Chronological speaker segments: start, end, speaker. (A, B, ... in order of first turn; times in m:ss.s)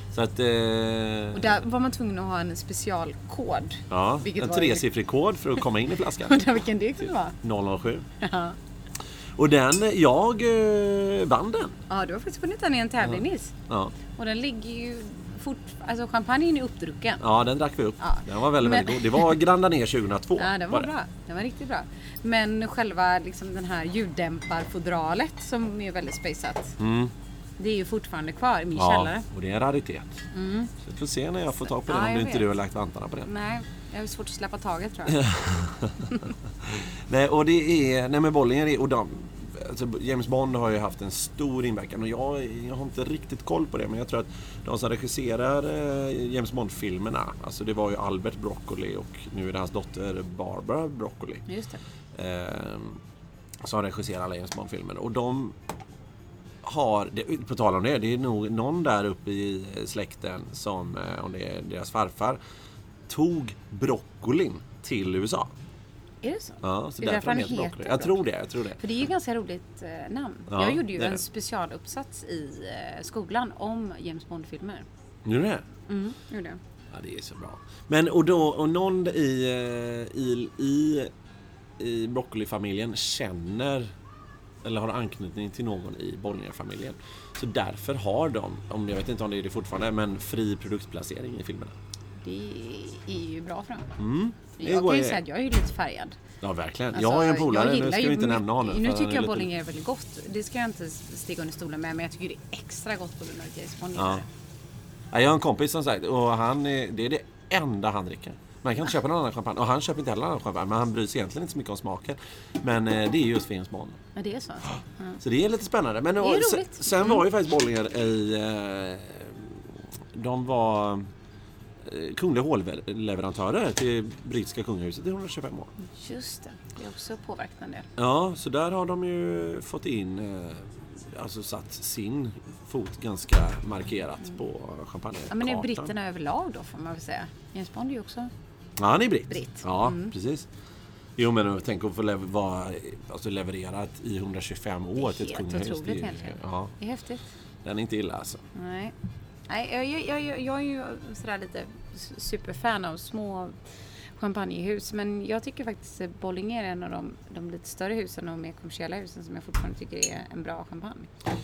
0:00.1-0:01.6 A
0:01.3-0:04.9 B
0:03.9-0:06.4 A
0:06.2-0:07.4 B
0:07.4-0:08.1 A
0:08.2-0:08.6 B
0:09.4-0:11.8 A
0:11.9-0:13.5 B
0:13.0-0:13.9 A
0:14.2-0:17.2 B
0:17.2-0:20.9 A
0:18.0-0:19.4 B
0:20.4-0:26.8 B
0:26.8-0:27.1 A
0:27.6-0:29.2 B
0:28.8-0:30.2 A
0:30.3-0:30.7 B
0:30.8-0:33.3 A
0:31.8-0:32.5 B
0:33.2-0:35.3 B
0:35.1-0:51.5 A
0:51.5-0:51.8 B
0:52.1-0:53.0 A
0:53.6-0:55.5 A
0:56.6-1:02.4 A
1:03.1-1:05.5 A
1:06.2-1:08.2 B
1:06.6-1:08.8 A
1:08.8-1:14.9 B
1:10.5-1:11.2 A
1:15.2-1:15.6 A
1:15.9-1:16.6 B
1:16.9-1:21.1 A
1:21.8-1:23.9 A
1:24.6-1:31.7 A
1:32.2-1:33.9 B
1:34.0-1:35.2 A
1:34.6-1:36.2 B
1:36.4-1:39.5 A
1:36.9-1:44.3 B
1:44.0-1:44.2 A
1:45.1-1:54.0 A
1:54.1-1:55.2 B
1:55.2-2:01.1 A
1:56.2-1:57.2 B
2:01.8-2:05.7 A
2:05.9-2:07.9 B
2:08.0-2:15.9 A
2:15.3-2:18.3 B
2:18.8-2:20.5 A
2:19.3-2:20.1 B
2:21.2-2:26.7 A
2:25.0-2:27.2 B
2:27.6-2:28.4 A
2:28.5-2:28.9 B
2:29.5-2:33.6 B
2:34.2-2:41.1 B